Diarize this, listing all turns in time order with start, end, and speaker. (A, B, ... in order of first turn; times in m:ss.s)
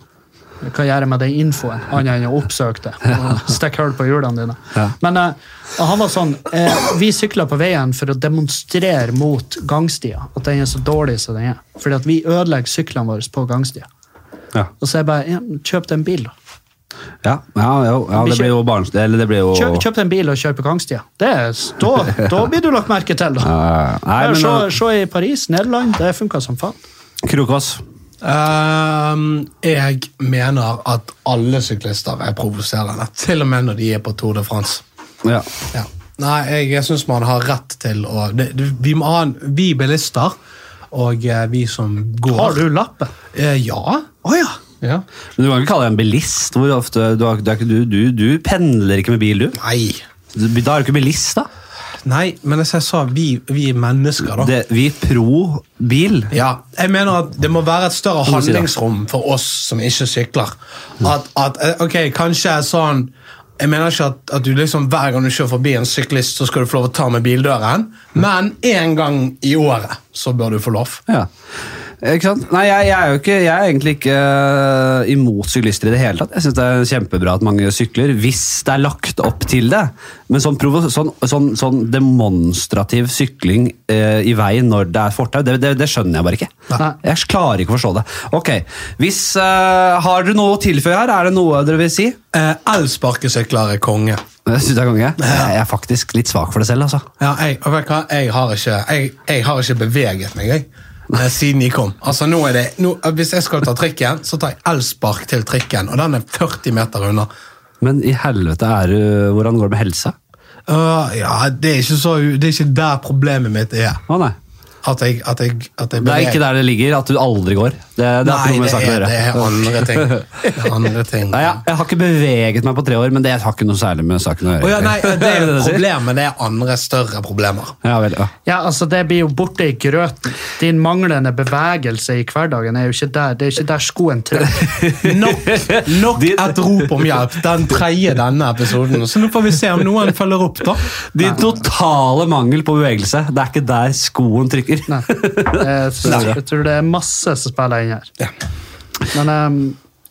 0:00.6-0:13.9 A
0:14.8-0:16.3 A
0:17.2-0:19.8 B
0:18.1-0:18.5 A
0:19.5-0:23.5 A
0:23.4-0:24.7 B
0:24.2-0:26.8 A
0:27.2-0:27.8 B
0:28.2-0:34.8 C
0:35.7-0:40.4 C
0:40.9-0:42.6 C
0:42.3-0:43.1 A
0:43.3-0:44.1 C
0:44.2-0:44.6 A
0:45.4-0:49.6 B
0:49.6-0:50.0 C
0:50.3-0:51.5 B
0:52.0-0:54.5 C
0:54.4-0:56.3 B
0:56.3-1:11.0 C
0:58.3-0:58.7 B
1:12.0-1:32.2 B
1:32.3-1:34.2 C
1:34.4-1:37.0 B
1:35.2-1:35.5 C
1:37.2-1:47.3 C
1:47.8-1:50.1 B
1:50.7-1:54.0 C
1:54.1-1:54.4 B
1:54.8-1:56.4 C
1:56.0-2:00.6 B
1:58.2-2:01.6 C
2:01.3-2:05.8 B
2:04.6-2:07.8 C
2:07.8-2:08.3 B
2:08.4-2:14.7 A
2:14.5-2:16.7 B
2:15.0-2:20.9 C
2:21.1-2:26.4 B
2:24.9-2:28.1 A
2:29.1-2:29.8 A